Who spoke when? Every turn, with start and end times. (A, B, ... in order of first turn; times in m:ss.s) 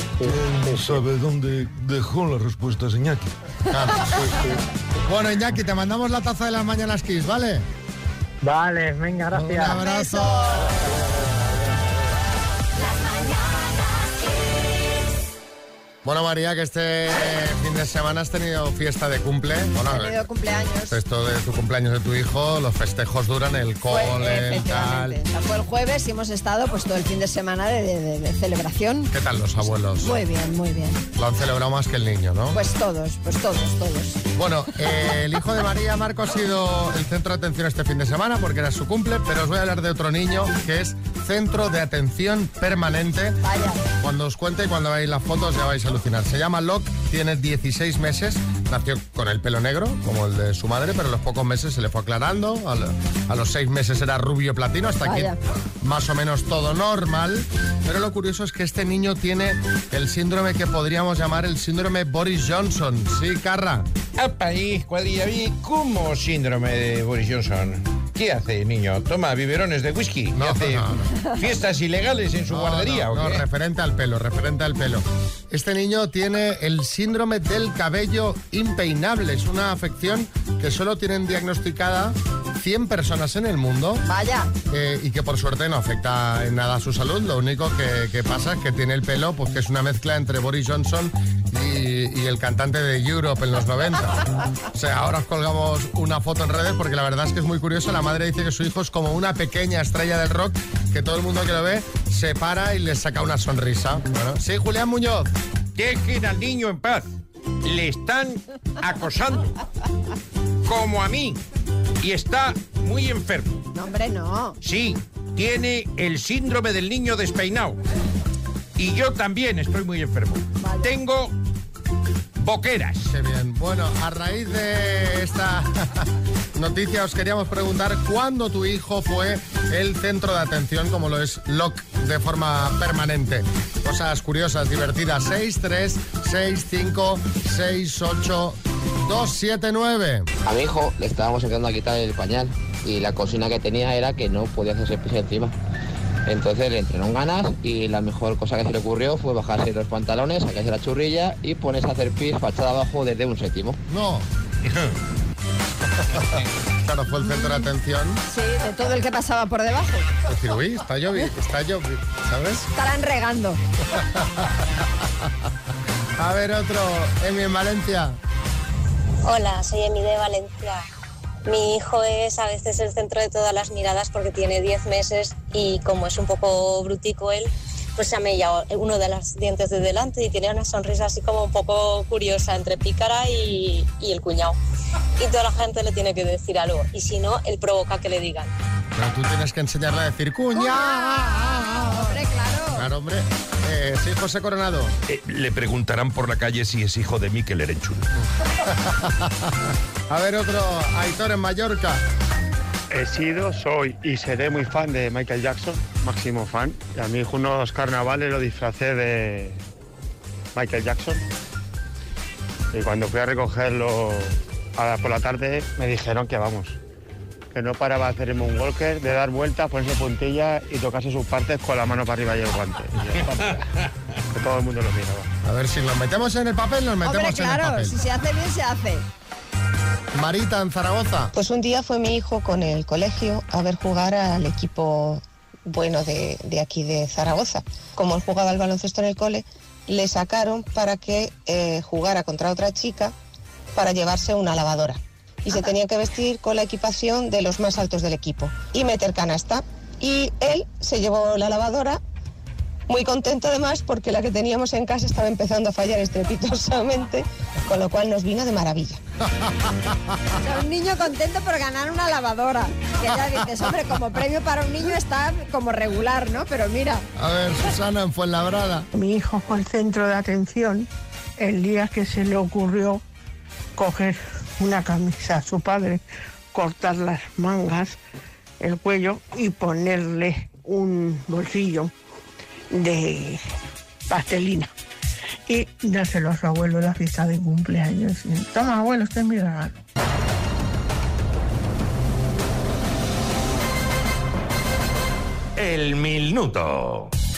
0:00.2-0:01.0 A
0:00.2-0:03.3 B
0:03.7-0:04.4 C
0:04.2-0:04.6 A
0:05.0-0:07.7 C
0:08.4-0:09.8 A
0:09.3-0:10.7 C
0:09.7-0:10.8 D
0:10.8-0:11.8 A
0:16.0-0:20.2 C
0:19.8-0:21.0 D
0:20.9-0:25.2 C
0:23.9-0:29.1 D
0:29.1-0:30.2 C
0:30.0-0:31.0 D
0:31.2-0:32.6 C
0:32.5-0:34.2 D
0:34.3-0:43.4 C
0:43.4-0:43.8 D
0:44.0-1:03.9 C
0:55.0-0:55.4 D
1:04.2-1:13.4 E
1:10.3-1:11.1 C
1:12.5-1:24.0 C
1:24.1-1:24.5 D
1:24.7-1:34.2 C
1:34.7-1:45.3 C
1:45.8-1:47.1 E
1:47.6-1:49.5 E
1:50.6-1:51.4 E
1:52.0-1:53.6 E
1:53.7-1:54.6 D
1:54.6-1:57.8 E
1:58.8-2:01.3 E
2:00.6-2:00.9 D
2:02.4-2:03.1 E
2:03.0-2:20.3 C
2:20.5-2:25.5 F
2:26.3-2:33.8 F
2:33.9-2:34.3 C
2:36.8-2:38.2 C
2:37.2-2:37.7 D
2:38.3-2:40.1 D
2:40.3-2:42.7 C
2:42.7-2:43.6 D
2:43.9-2:44.6 C
2:46.2-2:48.2 C
2:49.2-2:50.9 G
2:51.4-3:04.6 G
3:05.2-3:08.5 G
3:08.9-3:12.2 C
3:10.6-3:12.9 D
3:12.7-3:14.9 C
3:15.1-3:18.1 B
3:18.6-3:19.6 C
3:20.1-3:22.0 C
3:22.9-3:29.6 H
3:30.5-3:31.2 H
3:32.7-3:36.8 H
3:37.5-3:43.6 H
3:44.3-3:45.3 H
3:45.4-3:48.0 C
3:47.0-3:49.0 D
3:50.1-3:51.3 C
3:51.3-4:03.1 I
4:03.7-4:12.0 I
4:12.9-4:19.0 I
4:19.4-4:19.9 C
4:20.4-4:27.1 D
4:27.2-4:28.9 C
4:29.0-4:30.9 J
4:31.4-4:33.0 J
4:33.8-4:36.0 J
4:36.5-4:38.0 J
4:38.6-4:41.9 J
4:42.7-4:43.4 J
4:44.1-4:44.7 J
4:45.5-4:49.7 J